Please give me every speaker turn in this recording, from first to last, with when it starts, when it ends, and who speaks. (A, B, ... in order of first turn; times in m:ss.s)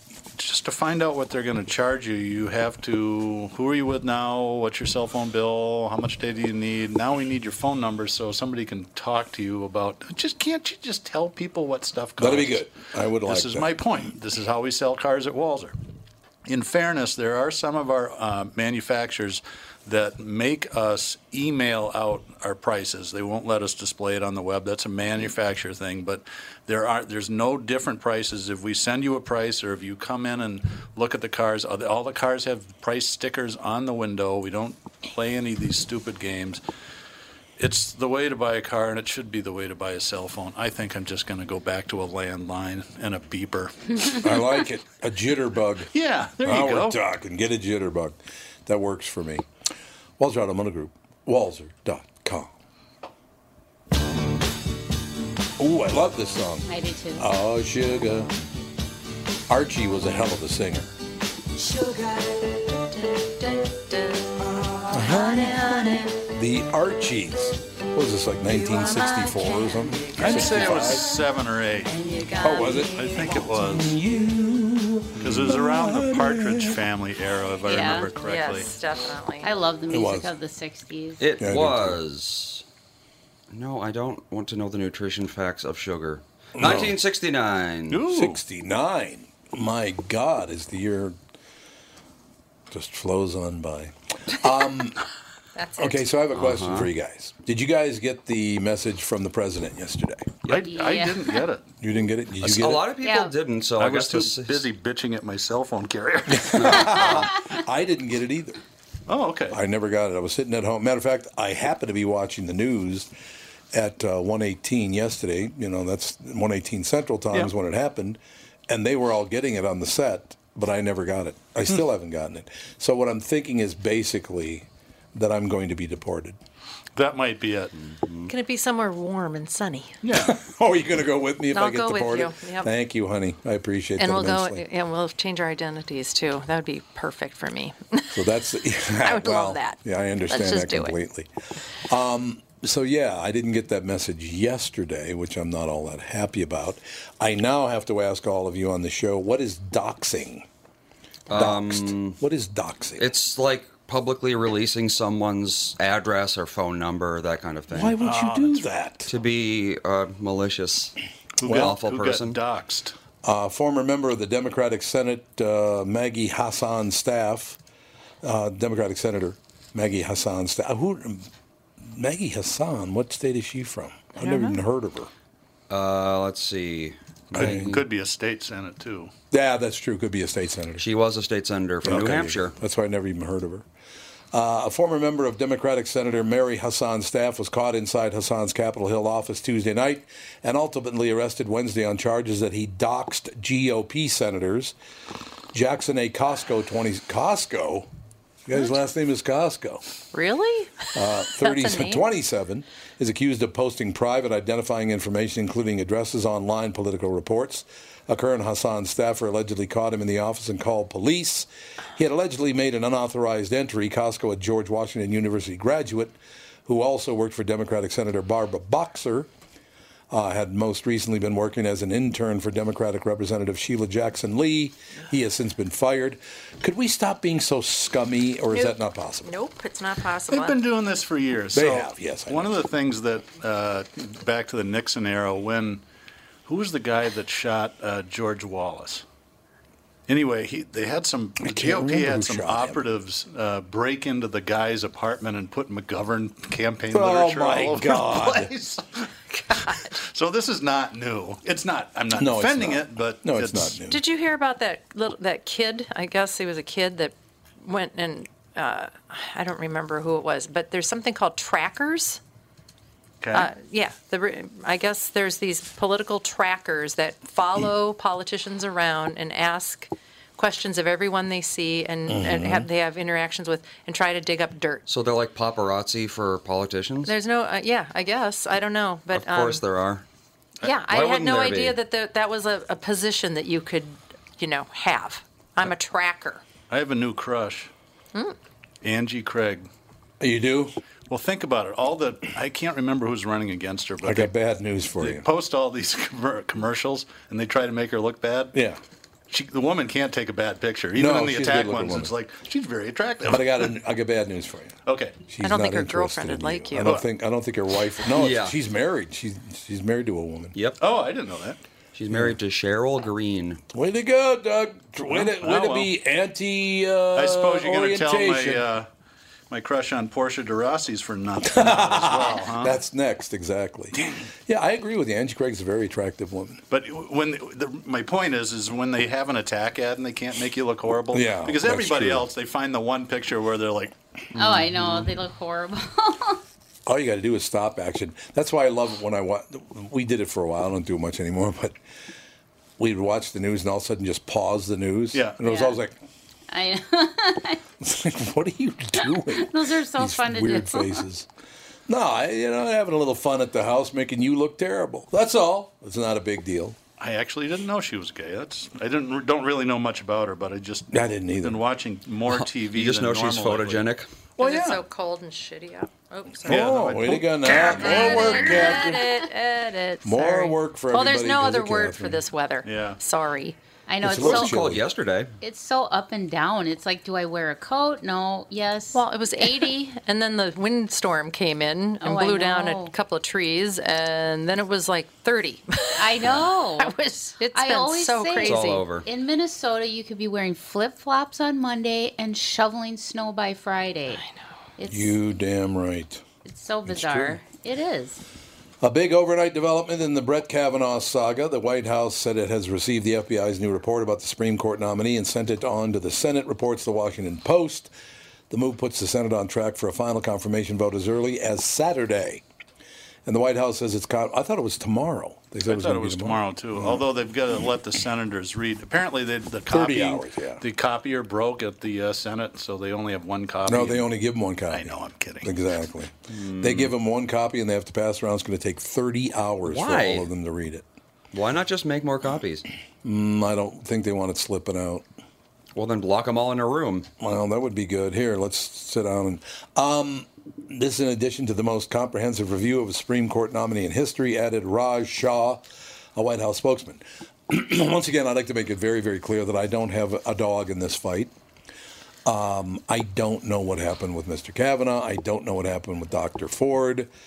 0:00.4-0:12.6 A
0:12.2-0:13.7 B
0:13.2-0:15.8 A
0:16.5-0:36.6 A
0:37.6-0:44.5 A
0:44.2-0:49.5 B
0:45.9-0:47.0 A
0:50.2-0:52.5 B
0:55.6-0:58.3 B
0:56.7-0:57.2 C
0:59.5-1:00.9 B
1:04.9-1:11.1 B
1:05.1-1:06.1 D
1:08.9-1:10.9 D
1:10.2-1:12.0 A
1:12.0-1:13.1 D
1:12.4-1:13.1 B
1:13.0-1:14.0 A
1:13.6-1:16.8 B
1:15.2-1:18.7 A
1:17.7-1:18.1 C
1:18.2-1:19.5 D
1:19.4-1:21.2 C
1:19.9-1:20.3 B
1:21.2-1:22.6 E
1:21.4-1:22.0 B
1:23.5-1:28.0 E
1:26.6-1:26.9 B
1:27.9-1:28.4 A
1:28.1-1:31.2 B
1:32.7-1:35.0 B
1:35.6-1:36.0 D
1:35.8-1:40.4 B
1:36.4-1:36.9 E
1:40.4-1:41.7 A
1:40.6-1:41.4 C
1:41.8-1:42.9 B
1:42.4-1:44.6 E
1:43.0-1:43.3 C
1:43.8-1:47.3 A
1:46.4-1:48.6 B
1:49.1-1:49.6 A
1:49.5-1:53.1 B
1:53.7-2:06.4 B
2:07.0-2:07.9 A
2:08.0-2:08.3 E
2:08.3-2:10.0 D
2:10.0-2:10.4 A
2:10.1-2:14.6 B
2:11.5-2:12.7 D
2:14.0-2:18.2 D
2:18.1-2:21.3 B
2:19.0-2:21.0 D
2:21.8-2:30.5 B
2:31.3-2:32.2 E
2:31.3-2:33.1 B
2:33.0-2:38.0 E
2:37.7-2:39.1 B
2:38.0-2:38.6 A
2:39.1-2:41.0 E
2:41.4-2:43.0 A
2:41.4-2:41.8 B
2:41.5-2:42.4 E
2:43.2-2:47.6 B
2:48.2-2:55.1 B
2:54.2-2:54.6 D
2:55.7-2:57.8 E
2:57.3-2:59.1 A
2:57.4-2:57.8 B
2:59.3-3:00.9 B
3:00.8-3:02.6 E
3:01.8-3:03.7 B
3:04.3-3:14.8 B
3:15.5-3:17.9 B
3:18.5-3:19.8 B
3:20.1-3:22.1 D
3:20.9-3:36.2 B
3:36.7-3:39.3 B
3:40.1-3:49.3 B
3:48.5-3:50.6 D
3:50.3-3:55.8 A
3:51.5-3:52.6 B
3:56.4-3:59.0 A
4:00.1-4:13.8 A
4:01.4-4:02.9 B
4:06.9-4:08.5 B
4:09.3-4:10.0 D
4:12.1-4:14.0 B
4:13.9-4:22.2 D
4:23.2-4:23.5 A
4:23.3-4:34.8 D
4:32.1-4:32.7 B
4:34.9-4:37.1 E
4:37.1-4:39.6 D
4:39.1-4:40.0 E
4:40.6-4:46.4 D
4:40.9-4:41.8 E
4:46.7-4:47.7 A
4:48.8-4:49.7 A
4:50.2-4:50.8 B
4:51.1-4:54.3 A
4:54.0-4:55.2 B
4:55.0-4:58.6 A
4:58.5-4:58.8 B
4:59.3-5:03.7 A
5:01.0-5:02.1 B
5:03.2-5:10.5 B
5:04.9-5:05.2 A
5:05.4-5:07.0 D
5:06.8-5:07.1 A
5:08.1-5:08.6 E
5:10.5-5:10.8 E
5:10.8-5:11.6 A
5:12.0-5:13.6 E
5:13.7-5:18.7 B
5:15.1-5:15.9 A
5:17.2-5:18.9 A
5:19.5-5:22.8 A
5:21.5-5:26.6 B
5:26.7-5:34.0 A
5:31.1-5:32.3 B
5:34.4-5:36.4 C
5:36.9-5:41.8 B
5:42.8-5:45.9 B
5:45.1-5:45.4 A
5:45.4-5:45.8 C
5:46.5-5:47.6 C
5:47.8-5:51.3 B
5:49.0-5:51.0 C
5:51.9-5:56.8 B
5:57.0-6:03.9 A
6:00.9-6:01.6 B
6:02.3-6:04.1 E
6:04.4-6:13.6 D
6:04.4-6:04.7 B
6:06.4-6:09.0 B
6:06.5-6:08.5 A
6:07.7-6:09.2 C
6:10.0-6:12.2 B
6:12.6-6:13.0 A
6:13.9-6:14.5 C
6:14.0-6:14.8 B
6:14.0-6:15.3 E
6:15.4-6:19.7 C
6:18.9-6:28.8 D
6:22.0-6:22.9 C
6:26.0-6:34.2 C
6:28.4-6:29.1 E
6:34.8-6:35.1 C
6:34.9-6:36.2 B
6:36.5-6:38.2 C
6:36.9-6:37.4 B
6:38.8-6:47.9 B
6:48.5-6:52.4 B
6:53.2-6:57.1 B
6:55.6-7:04.0 A
6:59.7-7:00.6 B
7:03.7-7:10.9 B
7:04.7-7:05.6 A
7:06.3-7:06.9 E
7:09.6-7:10.3 E
7:11.3-7:12.7 E
7:13.0-7:15.0 B
7:15.8-7:17.1 E
7:17.2-7:31.3 B
7:32.2-7:37.1 B